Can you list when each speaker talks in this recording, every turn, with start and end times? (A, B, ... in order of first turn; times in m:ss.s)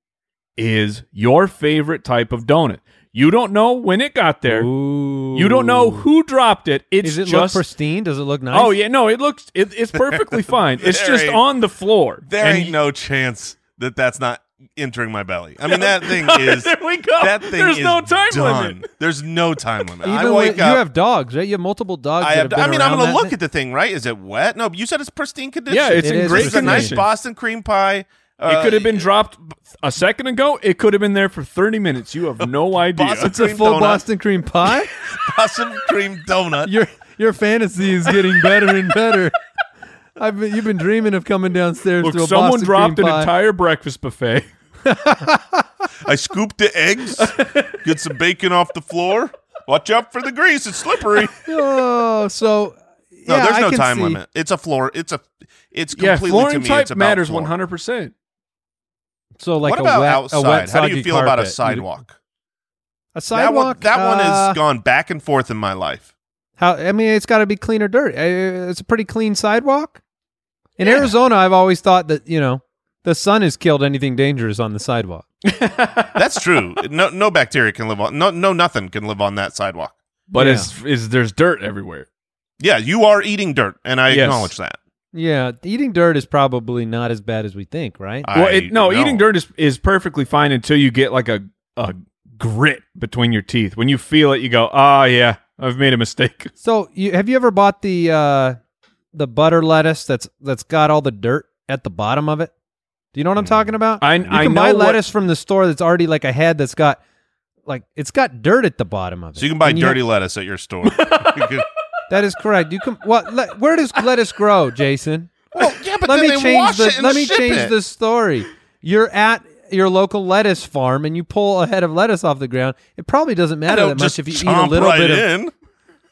0:00.6-0:04.7 A
0:04.4-0:06.0 B
0:05.3-0:07.6 A
0:07.0-0:08.8 B
0:08.5-0:12.7 A
0:10.0-0:11.4 C
0:12.2-0:20.8 C
0:15.7-0:18.9 A
0:20.0-0:23.3 B
0:22.2-0:29.1 C
0:25.7-0:27.1 A
0:26.0-0:27.0 B
0:28.5-0:33.3 A
0:32.9-0:34.0 C
0:33.2-0:34.9 B
0:35.1-0:36.7 C
0:36.6-0:39.4 B
0:40.2-0:43.3 B
0:42.0-0:44.5 A
0:44.8-0:45.6 B
0:46.0-0:51.3 C
0:51.4-0:54.2 B
0:53.3-0:57.5 C
0:56.0-0:58.1 A
0:59.4-1:01.8 B
0:59.6-1:02.2 C
1:03.1-1:04.6 B
1:03.3-1:06.1 C
1:06.6-1:10.0 B
1:10.8-1:15.2 B
1:15.4-1:16.1 A
1:16.1-1:19.9 C
1:20.3-1:22.1 A
1:20.4-1:20.7 B
1:22.6-1:24.8 C
1:24.1-1:24.5 A
1:25.1-1:28.3 B
1:28.2-1:29.2 C
1:28.3-1:36.5 A
1:36.6-1:38.6 B
1:39.1-1:42.5 B
1:43.1-1:47.0 B
1:43.4-1:43.7 C
1:44.0-1:45.0 A
1:47.6-1:50.0 B
1:49.4-1:51.6 C
1:50.8-1:51.5 A
1:52.1-1:55.3 B
1:55.5-1:57.7 C
1:56.0-2:05.3 B
2:03.6-2:05.5 C